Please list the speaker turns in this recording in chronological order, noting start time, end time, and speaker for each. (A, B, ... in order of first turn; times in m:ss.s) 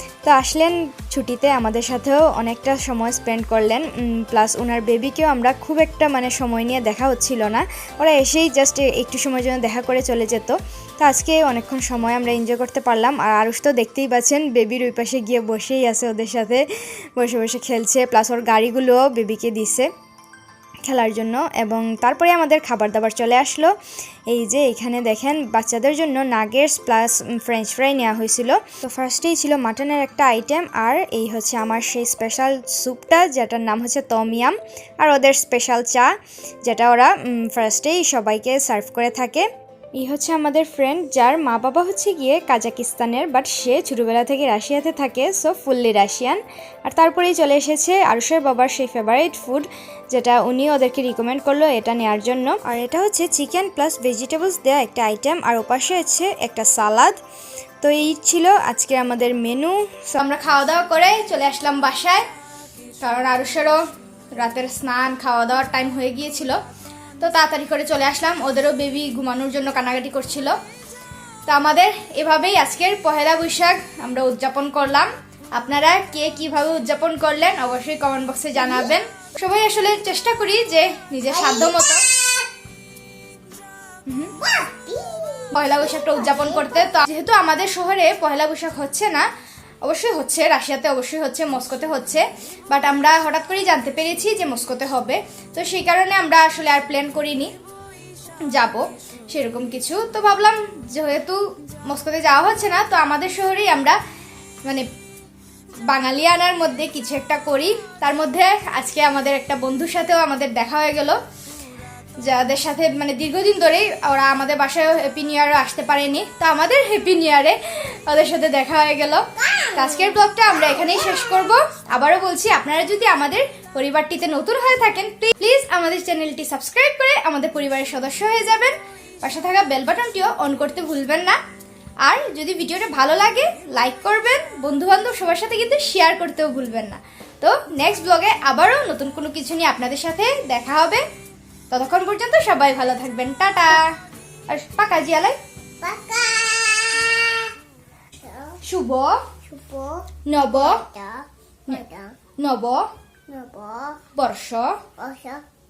0:00.2-0:16.6 A
0:17.2-0:19.9 A
0:20.8-0:23.7 A
0:24.3-0:36.1 A
0:36.6-0:39.4 A
0:40.0-0:57.2 A
0:57.8-1:02.2 A
1:03.0-1:03.8 A
1:04.4-1:06.6 A
1:07.2-1:10.6 A
1:11.5-1:22.0 A
1:21.3-1:22.4 B
1:24.1-1:24.3 A
1:24.4-1:26.9 B
1:25.5-1:29.3 A
1:29.8-1:37.5 A
1:38.5-1:44.0 A
1:45.9-1:51.2 A
1:52.2-2:11.4 A
2:12.0-2:21.0 A
2:21.7-2:23.9 A
2:24.5-2:25.4 A
2:25.8-2:27.5 B
2:28.2-2:28.5 B
2:28.6-2:29.1 A
2:29.5-2:32.1 B
2:30.3-2:30.8 A
2:32.4-2:32.8 A
2:33.3-2:34.0 B
2:34.2-2:34.7 A
2:35.0-2:35.4 B